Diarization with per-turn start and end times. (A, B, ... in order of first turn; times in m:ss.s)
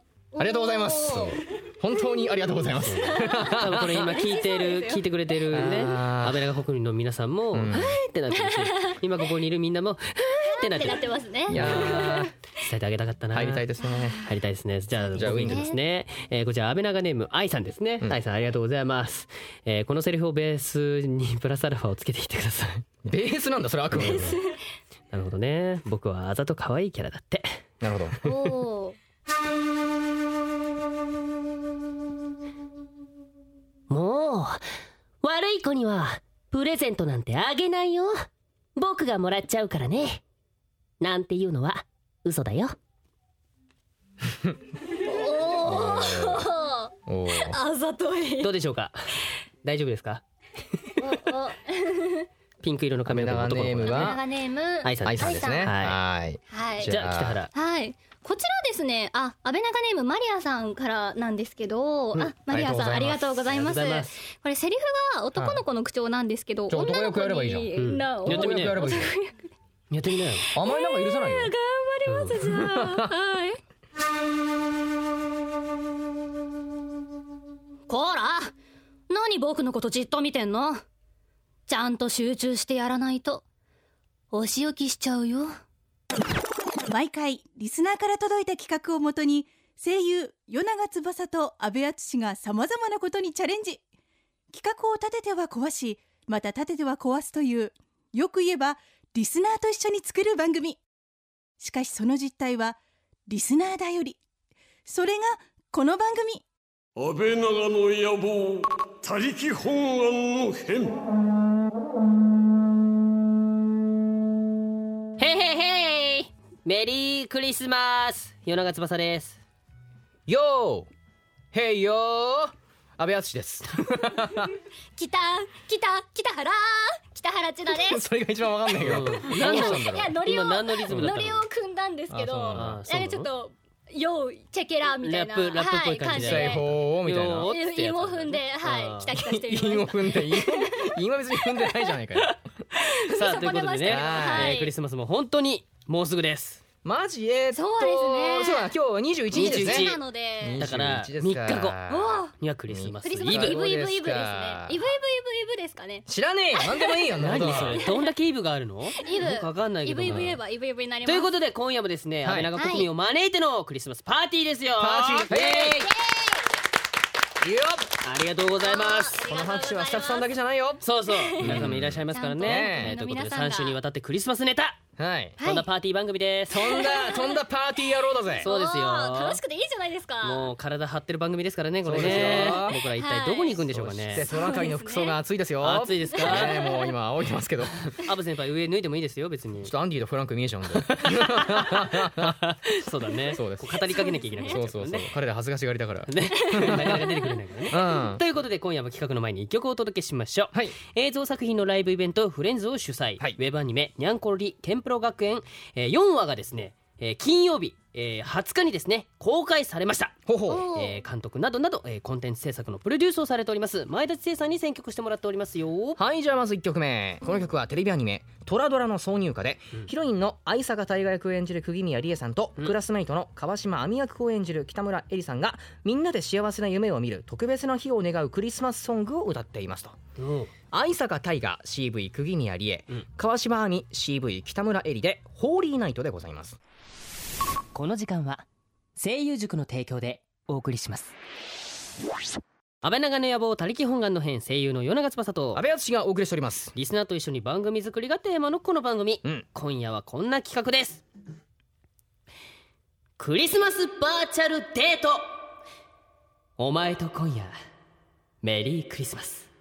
0:00.3-0:01.4 A
0:00.4-0:04.1 B
0:02.8-0:05.8 A
0:02.8-0:11.0 C
0:05.5-0:06.5 B
0:07.5-0:08.0 B
0:08.3-0:09.0 A
0:10.4-0:12.3 A
0:11.5-0:12.3 B
0:11.5-0:13.6 C
0:13.3-0:14.2 B
0:14.2-0:22.8 C
0:15.1-0:15.7 B
0:15.2-0:15.8 A
0:23.0-0:24.4 B
0:24.0-0:24.4 C
0:24.0-0:24.5 A
0:25.1-0:27.6 C
0:27.8-0:28.2 B
0:28.2-0:29.0 A
0:33.9-0:34.6 C
0:35.2-0:40.2 C
0:41.0-0:42.8 C
0:45.0-0:48.5 A
0:45.6-0:46.5 B
0:47.1-0:47.6 B
0:48.4-0:50.2 C
0:51.0-0:52.3 A
0:52.6-0:54.2 C
0:53.0-0:54.2 B
0:53.8-0:55.7 A
0:54.8-0:56.0 C
0:55.0-0:57.4 B
0:56.5-0:56.9 A
0:56.8-0:57.5 C
0:57.5-1:09.3 A
1:02.5-1:03.4 B
1:03.5-1:04.1 C
1:05.4-1:05.6 B
1:06.7-1:07.7 B
1:07.8-1:08.8 C
1:08.2-1:09.1 B
1:09.9-1:10.5 C
1:10.5-1:11.5 B
1:10.5-1:13.6 A
1:12.0-1:12.4 C
1:12.4-1:13.1 B
1:17.9-1:18.5 A
1:19.1-1:20.8 A
1:21.7-1:23.4 A
1:24.3-1:25.6 A
1:26.9-1:33.8 D
1:34.5-1:40.8 D
1:41.6-1:42.8 D
1:43.3-1:44.2 D
1:44.9-1:46.4 D
1:47.0-1:51.0 E
1:55.2-1:59.4 C
2:00.3-2:00.9 B
2:01.5-2:04.5 B
2:05.0-2:08.0 A
2:07.7-2:10.2 B
2:08.8-2:11.4 C
2:09.3-2:16.7 A
2:12.1-2:12.8 B
2:12.5-2:13.3 C
2:15.0-2:19.1 C
2:16.1-2:17.5 B
2:17.5-2:21.0 A
2:19.1-2:22.4 B
2:22.8-2:24.7 A
2:23.1-2:26.6 C
2:23.8-2:24.6 B
2:26.8-2:34.9 B
2:27.5-2:28.7 A
2:29.3-2:30.0 C
2:29.3-2:30.6 A
2:30.6-2:31.8 C
2:31.9-2:32.3 A
2:32.4-2:33.6 C
2:33.0-2:38.1 A
2:36.1-2:37.8 B
2:37.2-2:40.4 C
2:39.0-2:41.3 A
2:40.1-2:40.3 B
2:41.0-2:45.9 C
2:42.2-2:42.5 B
2:42.6-2:42.9 A
2:44.8-2:45.8 B
2:45.5-2:46.5 A
2:47.4-2:47.9 B
2:48.0-2:49.2 C
2:48.6-2:50.3 A
2:49.2-2:50.8 B
2:50.8-2:54.8 C
2:51.0-2:53.8 A
2:51.4-2:52.9 B
2:55.0-2:55.4 B
2:55.4-2:56.8 C
2:55.4-2:55.6 A
2:56.5-2:58.5 B
2:56.6-2:57.4 A
2:58.4-3:00.5 A
2:58.4-2:59.4 C
3:00.2-3:04.2 C
3:01.8-3:02.8 B
3:01.9-3:05.2 A
3:03.7-3:07.9 B
3:05.6-3:06.6 C
3:06.1-3:06.9 A
3:08.0-3:09.7 C
3:09.6-3:12.4 B
3:10.7-3:15.1 C
3:13.3-3:16.9 B
3:13.8-3:14.5 A
3:16.0-3:30.1 C
3:16.4-3:17.3 A
3:17.7-3:18.2 B
3:30.2-3:30.7 B
3:30.5-3:31.0 A
3:30.7-3:36.0 C
3:36.0-3:50.0 B
3:50.2-3:50.5 C
3:50.7-3:56.6 B
3:57.7-3:58.4 C
3:59.0-4:01.1 C
4:02.8-4:05.6 C
4:05.5-4:06.7 B
4:06.7-4:11.0 C
4:13.2-4:15.3 C
4:16.6-4:17.5 C
4:18.4-4:19.5 C